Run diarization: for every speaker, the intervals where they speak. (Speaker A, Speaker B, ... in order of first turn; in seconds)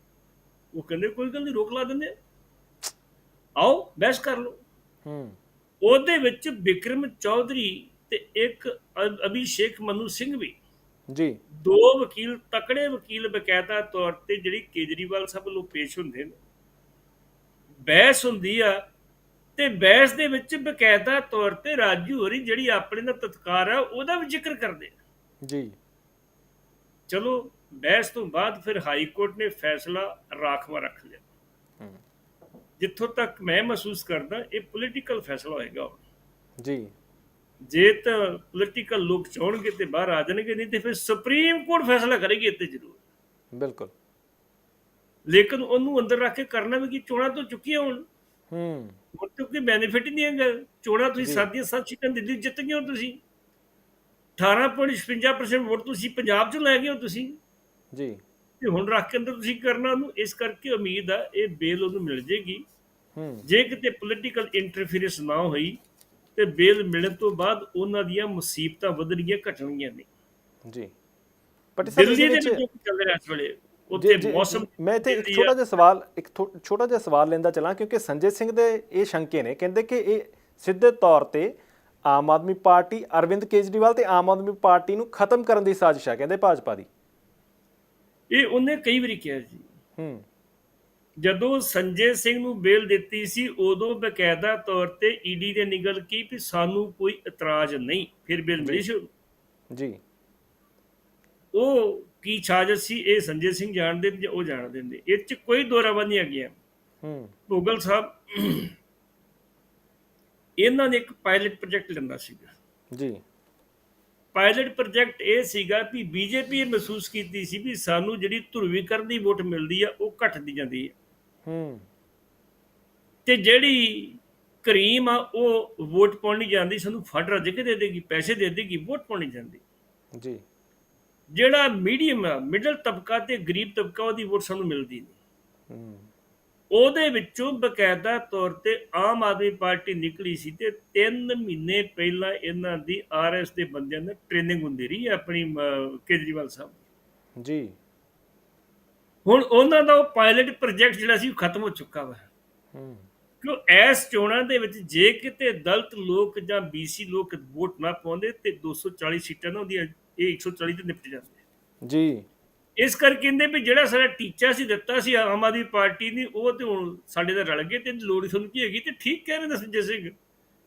Speaker A: 0.7-2.1, 3.6-4.6, 5.8-10.6, 11.5-16.4, 17.8-18.8, 19.6-24.9, 27.1-31.2, 32.8-36.0, 37.7-43.0, 45.3-48.0, 49.1-53.2, 54.4-57.4, 58.6-62.6, 63.5-65.8, 66.3-70.1, 71.9-75.5, 88.3-89.7, 91.2-99.1, 101.5-106.5, 107.5-108.8, 110.6-112.5, 114.3-120.9, 123.2-129.6, 131.3-135.1, 136.7-146.8, 149.2-152.2, 153.4-161.3, 162.8-170.1
Speaker B: 5.0-5.4, 11.1-11.4, 25.4-25.7, 36.6-36.9, 43.6-43.9, 48.5-49.0, 51.2-51.5, 57.9-58.2, 63.1-63.5, 70.7-70.9, 71.8-72.6, 74.0-81.5, 82.1-86.9, 90.0-90.2, 98.6-98.8, 99.7-100.0, 107.0-107.3, 112.9-113.2, 121.5-121.8, 130.2-130.4, 135.7-136.1, 147.4-147.7, 152.7-153.1, 161.8-162.3